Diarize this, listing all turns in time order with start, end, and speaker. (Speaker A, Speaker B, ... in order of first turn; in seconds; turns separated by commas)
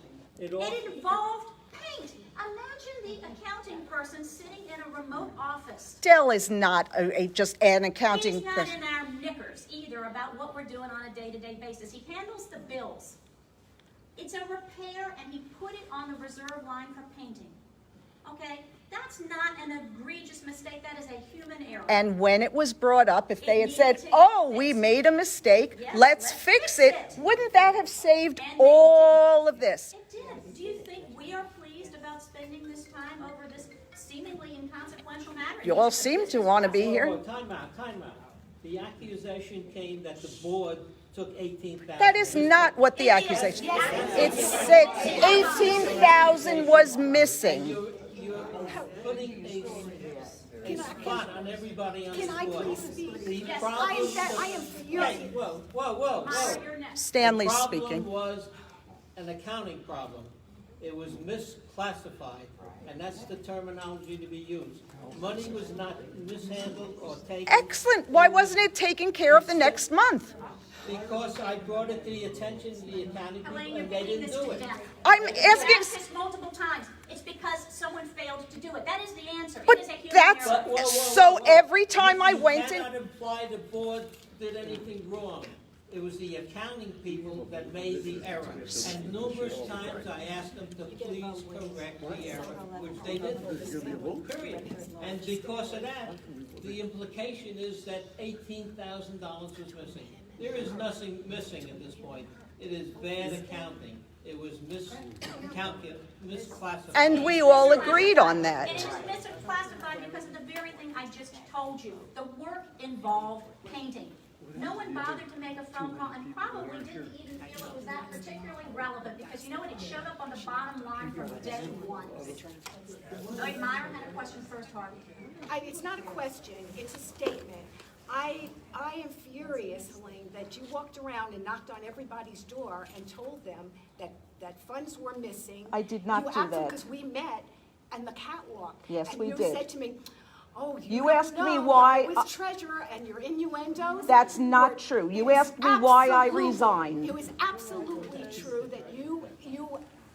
Speaker A: 0.3-1.0, Speaker B: 0.6-6.0, Speaker C: 6.0-8.7, Speaker B: 8.1-13.2, Speaker B: 14.2-17.6, Speaker B: 18.2-22.0, Speaker C: 21.9-29.9, Speaker B: 23.4-24.9, Speaker B: 25.7-27.2, Speaker B: 28.4-29.2, Speaker B: 29.9-36.5, Speaker C: 35.6-37.2, Speaker A: 36.7-42.7, Speaker C: 42.0-47.8, Speaker B: 42.9-46.0, Speaker D: 43.5-45.6, Speaker A: 43.7-56.7, Speaker D: 50.6-51.2, Speaker D: 52.1-55.4, Speaker B: 53.4-53.9, Speaker B: 56.2-57.0, Speaker C: 57.0-58.1, Speaker A: 57.2-58.5, Speaker A: 59.1-67.7, Speaker C: 67.5-70.3, Speaker A: 69.3-69.8, Speaker A: 70.8-74.7, Speaker B: 73.4-80.7, Speaker C: 75.0-76.0, Speaker C: 79.7-82.9, Speaker A: 80.4-107.8, Speaker C: 106.9-108.9, Speaker B: 107.1-122.4, Speaker B: 123.3-125.0, Speaker D: 125.5-140.0, Speaker C: 135.7-136.8, Speaker C: 138.9-139.6, Speaker D: 140.5-149.8, Speaker C: 140.9-142.3, Speaker C: 144.1-147.1